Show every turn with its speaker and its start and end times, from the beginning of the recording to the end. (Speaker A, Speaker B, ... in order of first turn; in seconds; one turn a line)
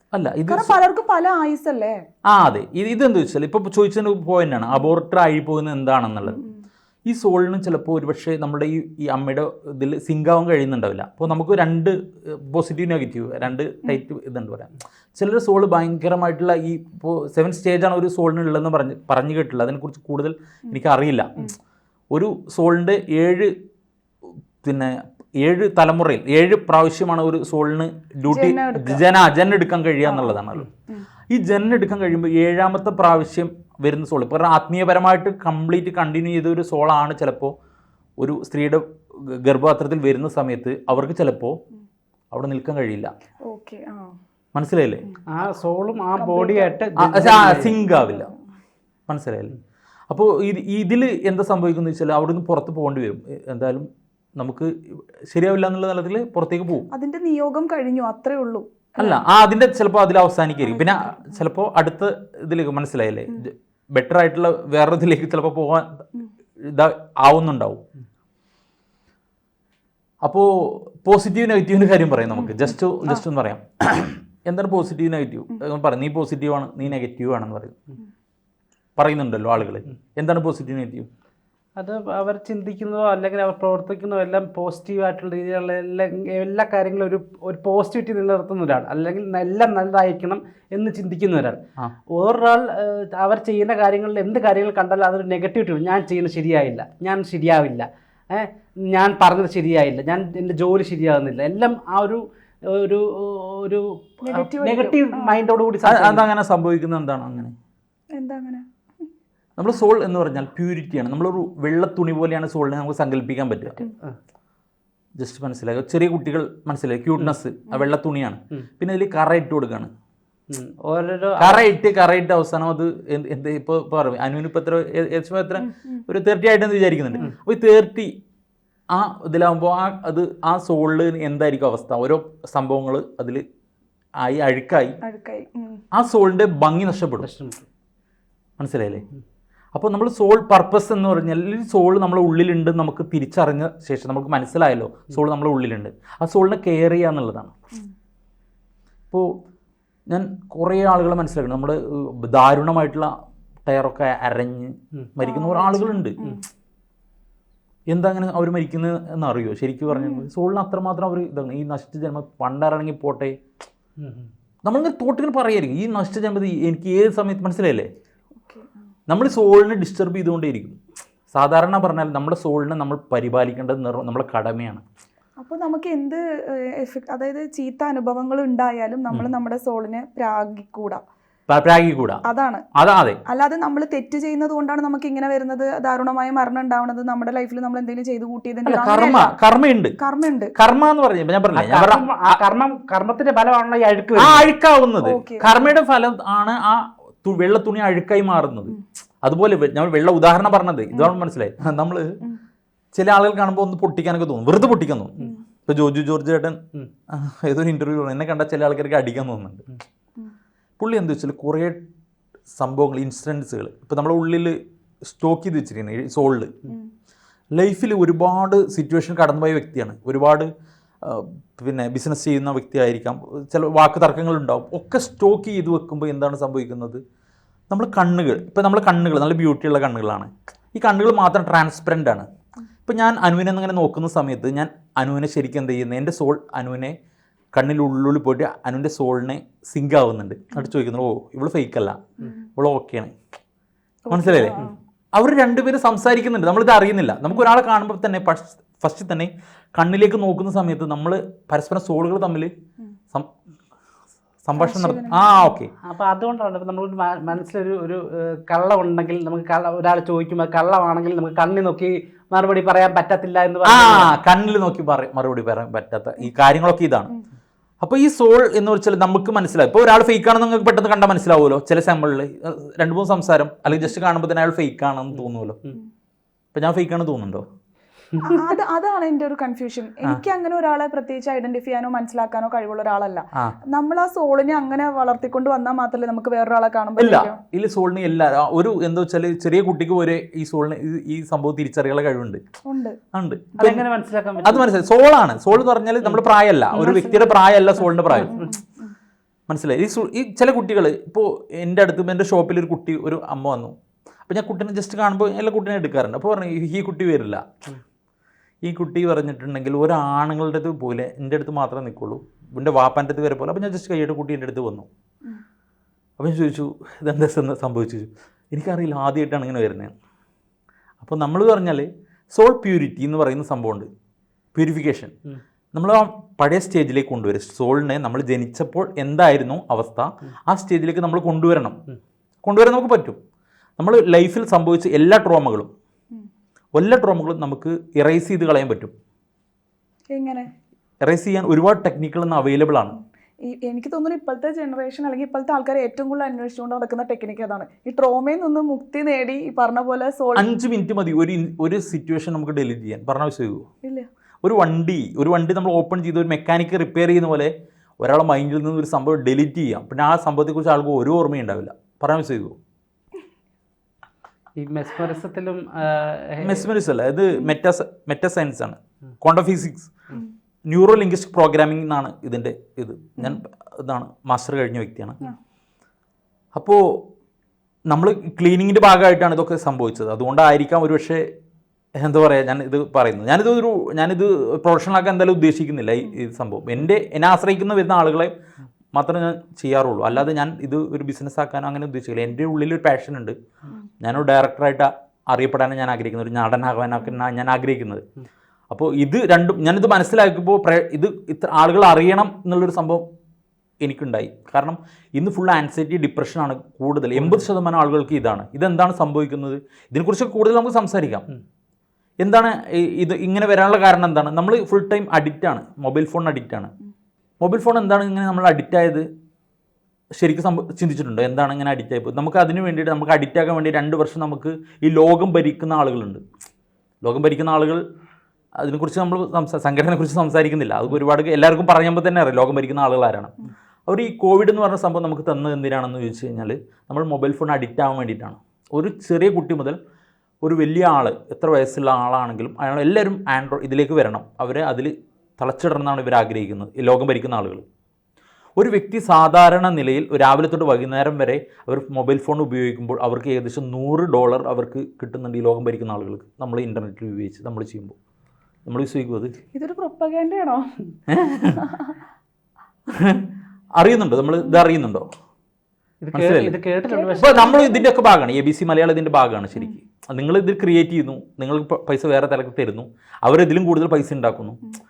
Speaker A: 0.1-0.8
Speaker B: 0.5-2.0
Speaker A: 2.3-6.4
Speaker B: 6.3-6.6
Speaker A: 7.1-21.5
Speaker A: 22.1-23.5
Speaker A: 24.6-30.7
Speaker B: 28.3-29.0
Speaker B: 30.0-31.1
Speaker A: 31.3-37.5
Speaker A: 38.2-41.6
Speaker A: 42.3-43.1
Speaker B: 43.5-44.2
Speaker A: 44.5-45.1
Speaker C: 45.3-47.8
Speaker B: 46.2-46.8
Speaker A: 47.0-48.3
Speaker B: 47.6-48.4
Speaker A: 49.1-49.5
Speaker A: 50.1-54.7
Speaker A: 55.3-56.9
Speaker B: 56.9-59.2
Speaker A: 59.0-66.0
Speaker B: 60.6-61.4
Speaker A: 66.6-67.8
Speaker A: 70.2-77.8
Speaker B: 72.4-72.7
Speaker A: 79.0-81.1
Speaker C: 81.8-106.2
Speaker B: 104.2-105.4
Speaker A: 105.8-107.5
Speaker B: 108.2-108.7
Speaker A: 109.6-113.9
Speaker A: 115.2-119.9
Speaker C: 120.5-121.7
Speaker A: 121.4-128.1
Speaker A: 128.9-133.4
Speaker A: 134.2-135.0
Speaker B: 135.0-135.8
Speaker A: 135.9-137.3
Speaker C: 137.2-137.7
Speaker A: 138.6-139.1
Speaker A: 139.8-147.5
Speaker A: 150.1-153.1
Speaker A: 153.7-156.2
Speaker B: 155.2-156.4
Speaker A: 157.9-163.4
Speaker B: 159.9-160.3
Speaker C: 164.0-164.3
Speaker A: 164.7-167.9
Speaker B: 168.4-168.7
Speaker A: 169.1-170.8
Speaker A: 171.3-174.8
Speaker B: 175.4-181.0
Speaker A: 181.5-182.2
Speaker B: 182.3-182.6
Speaker A: 182.8-183.2
Speaker B: 183.3-189.3
Speaker A: 188.7-189.9
Speaker B: 190.0-190.5
Speaker A: 190.6-192.4
Speaker C: 191.5-194.5
Speaker A: 194.2-202.2
Speaker B: 195.0-195.7
Speaker A: 202.9-206.6
Speaker A: 207.1-209.7
Speaker A: 210.8-211.8
Speaker A: 212.5-216.5
Speaker A: 217.5-220.5
Speaker A: 221.0-227.0
Speaker A: 227.7-232.3
Speaker A: 232.9-237.0
Speaker A: 237.5-242.0
Speaker A: 242.6-243.1
Speaker B: 244.1-244.8
Speaker A: 244.1-244.6
Speaker A: 245.2-252.5
Speaker A: 254.4-255.7
Speaker B: 254.6-255.5
Speaker C: 255.8-264.1
Speaker A: 263.7-267.2
Speaker A: 267.8-275.6
Speaker A: 276.5-277.5
Speaker B: 278.2-287.4
Speaker A: 287.0-292.4
Speaker B: 292.7-293.0
Speaker A: 293.1-293.8
Speaker C: 293.6-294.7
Speaker A: 294.4-298.4
Speaker C: 296.0-298.6
Speaker B: 298.3-298.9
Speaker A: 299.5-303.8
Speaker A: 304.3-307.4
Speaker A: 308.6-314.9
Speaker A: 316.2-319.9
Speaker A: 321.0-323.9
Speaker A: 324.5-325.1
Speaker A: 325.7-331.8
Speaker A: 332.4-333.2
Speaker A: 333.8-335.7
Speaker A: 336.8-338.9
Speaker B: 340.1-340.5
Speaker A: 341.0-343.0
Speaker B: 343.5-350.5
Speaker A: 350.4-353.7
Speaker A: 354.4-362.6
Speaker C: 364.6-366.7
Speaker A: 366.4-369.9
Speaker A: 370.7-375.2
Speaker A: 376.6-377.0
Speaker A: 377.9-381.2
Speaker A: 382.0-388.3
Speaker A: 388.9-393.4
Speaker A: 394.0-398.0
Speaker A: 398.7-403.1
Speaker A: 403.8-411.3
Speaker C: 407.2-407.4
Speaker A: 412.2-416.7
Speaker A: 417.4-419.1
Speaker A: 420.2-426.2
Speaker A: 427.0-427.8
Speaker A: 428.6-439.8
Speaker A: 440.4-447.6
Speaker A: 448.6-458.0
Speaker A: 458.7-459.3
Speaker B: 459.6-460.8
Speaker A: 461.1-461.6
Speaker B: 461.5-461.9
Speaker A: 462.9-465.1
Speaker C: 466.0-467.4
Speaker A: 466.1-466.6
Speaker B: 466.9-467.9
Speaker A: 467.2-474.6